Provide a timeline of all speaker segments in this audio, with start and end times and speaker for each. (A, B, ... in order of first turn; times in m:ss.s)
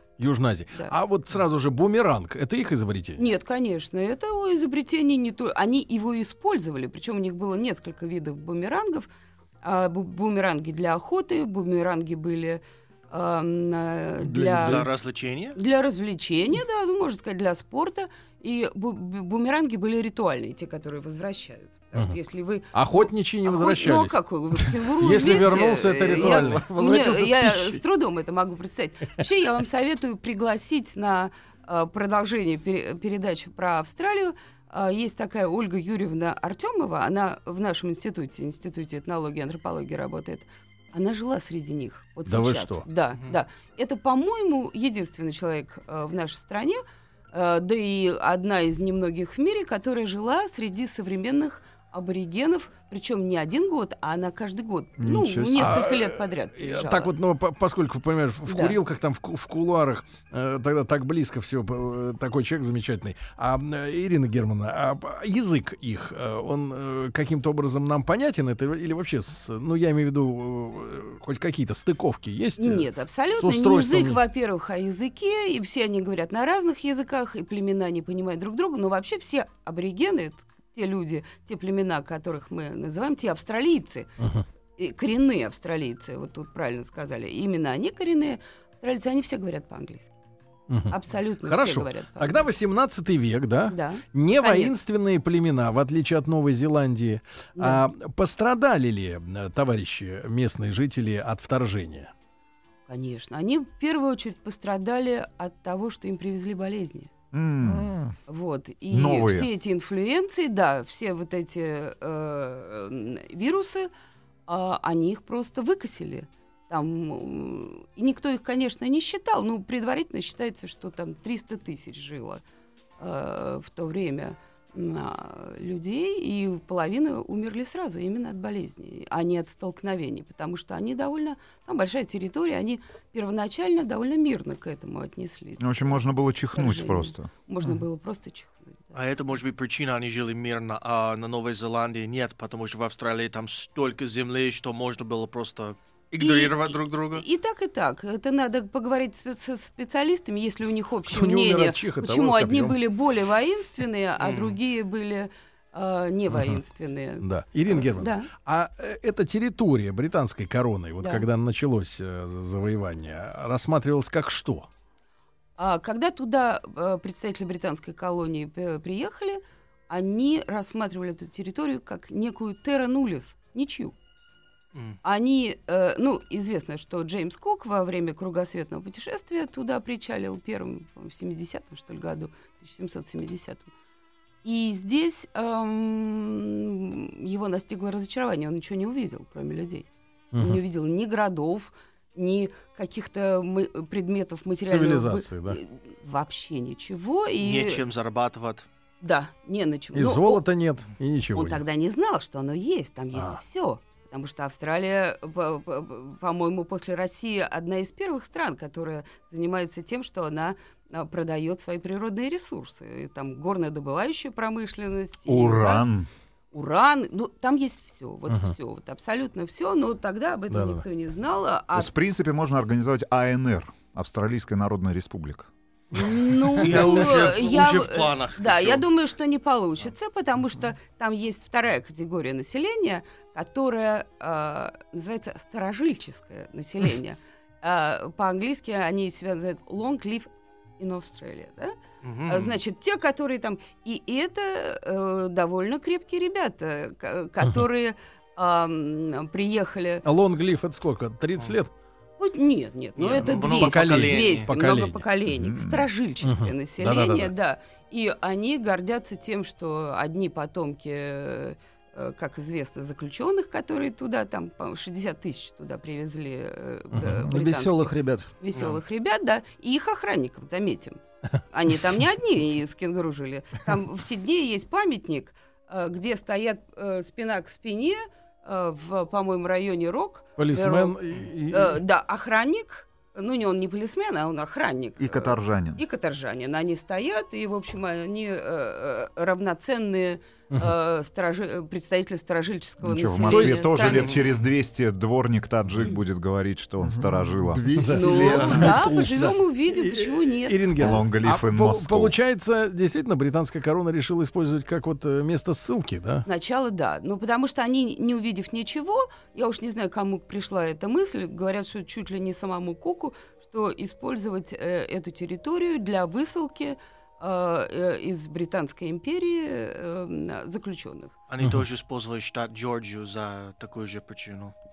0:00.2-0:03.3 A
0:03.2-0:09.1 B
0:09.6-0:14.9 B
0:14.2-0:14.9 C
0:14.6-0:15.6 D
0:15.6-0:57.1 B
0:22.7-0:26.9 A
0:26.1-0:27.8 C
0:42.3-0:42.8 A
0:55.0-0:55.8 C
0:55.6-1:14.2 A
0:58.5-0:58.8 B
1:12.6-1:24.1 B
1:24.2-1:24.4 A
1:24.8-1:30.1 B
1:30.7-1:31.0 A
1:30.9-1:32.5 B
1:31.5-1:42.1 A
1:33.7-1:34.7 B
1:37.6-1:37.8 B
1:42.9-1:47.1 B
1:47.3-1:47.9 E
1:47.7-1:48.0 C
1:48.3-1:53.9 B
1:48.9-1:49.5 E
1:54.5-2:02.4 B
2:03.0-2:16.0 B
2:15.6-2:17.3 E
2:16.5-2:19.0 B
2:18.9-2:27.2 D
2:26.2-2:38.3 B
2:31.1-2:32.8 A
2:34.2-2:34.6 D
2:36.3-2:36.6 A
2:37.2-2:44.7 A
2:45.6-2:54.0 B
2:55.0-3:03.7 B
3:04.4-3:17.8 B
3:10.3-3:10.6 A
3:14.7-3:15.6 A
3:17.4-3:18.7 D
3:19.0-3:20.4 B
3:20.0-3:21.6 A
3:21.3-3:35.9 B
3:35.3-3:36.1 E
3:36.5-3:41.9 B
3:38.3-3:38.5 A
3:40.5-3:40.8 A
3:41.7-3:45.5 E
3:45.9-4:01.7 B
3:46.6-3:48.8 D
4:02.0-4:02.6 D
4:02.3-4:10.0 B
4:10.0-4:11.7 A
4:12.2-4:31.0 B
4:13.0-4:14.5 D
4:13.2-4:15.0 A
4:15.3-4:15.8 E
4:16.2-4:17.3 A
4:26.9-4:27.3 A
4:27.2-4:28.3 C
4:28.5-4:28.8 D
4:31.5-4:54.2 B
4:40.4-4:41.8 A
4:45.0-4:45.8 E
4:52.8-4:57.6 E
4:53.2-4:53.9 A
4:54.0-4:54.3 D
4:56.8-4:59.3 C
4:57.8-5:06.2 A
4:57.9-5:01.0 B
5:00.8-5:02.2 E
5:06.3-5:21.2 B
5:21.3-5:24.5 D